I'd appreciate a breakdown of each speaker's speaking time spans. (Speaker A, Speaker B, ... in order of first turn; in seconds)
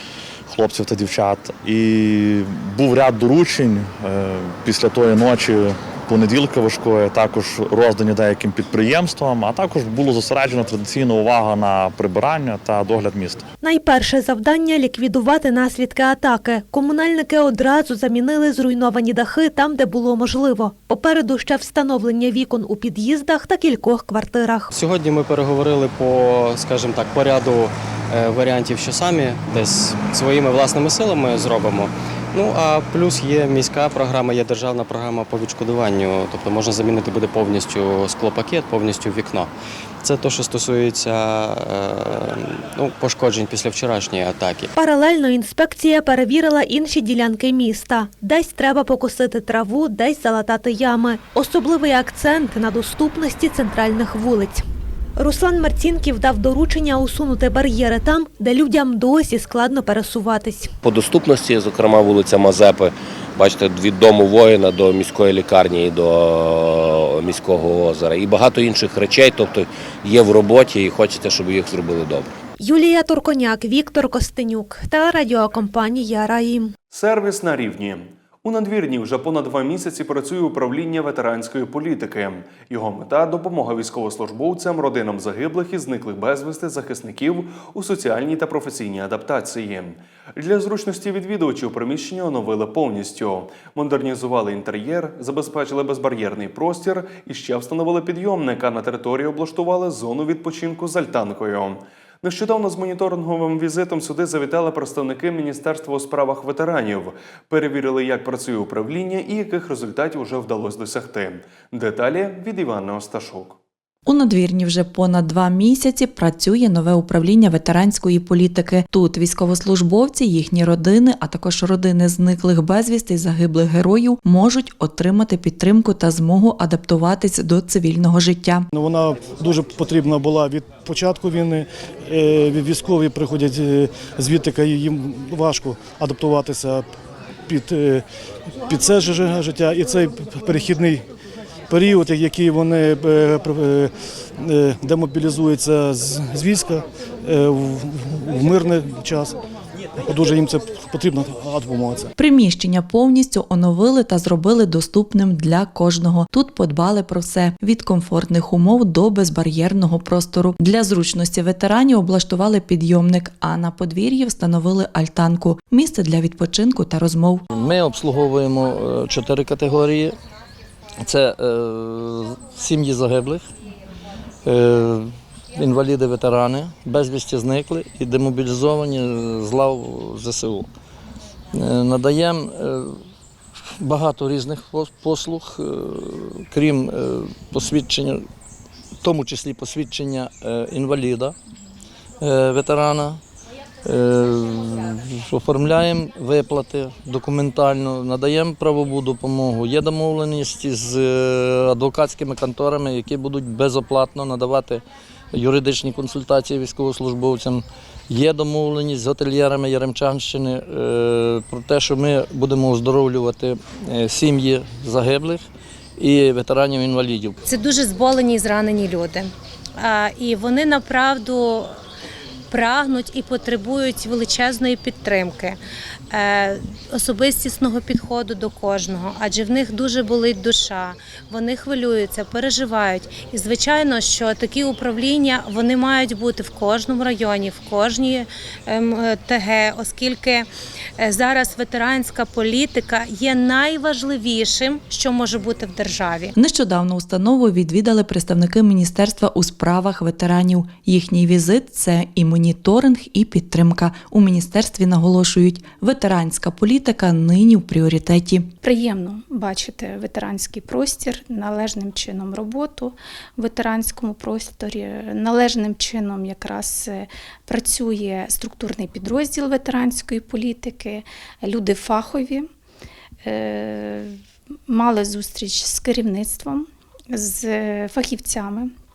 Speaker A: 0.5-13.4
Speaker B: 13.6-24.7, 44.7-54.6, 55.2-60.7, 72.6-76.7
Speaker C: 24.7-39.5, 40.0-44.7
Speaker D: 60.8-72.3
Speaker E: 76.9-113.6
Speaker F: 114.1-128.7, 152.2-167.4, 246.3-258.5
Speaker G: 128.7-136.8, 137.5-138.0, 138.7-141.0, 141.7-149.3, 150.0-152.1
Speaker H: 167.5-170.2, 171.0-173.4, 174.4-180.7, 181.5-183.0, 183.8-188.3, 189.0-191.3, 192.2-193.2, 193.8-217.4
Speaker I: 217.5-221.7, 222.5-225.6, 226.1-240.5, 241.0-246.3
Speaker J: 258.6-272.5, 273.2-274.1, 274.7-278.7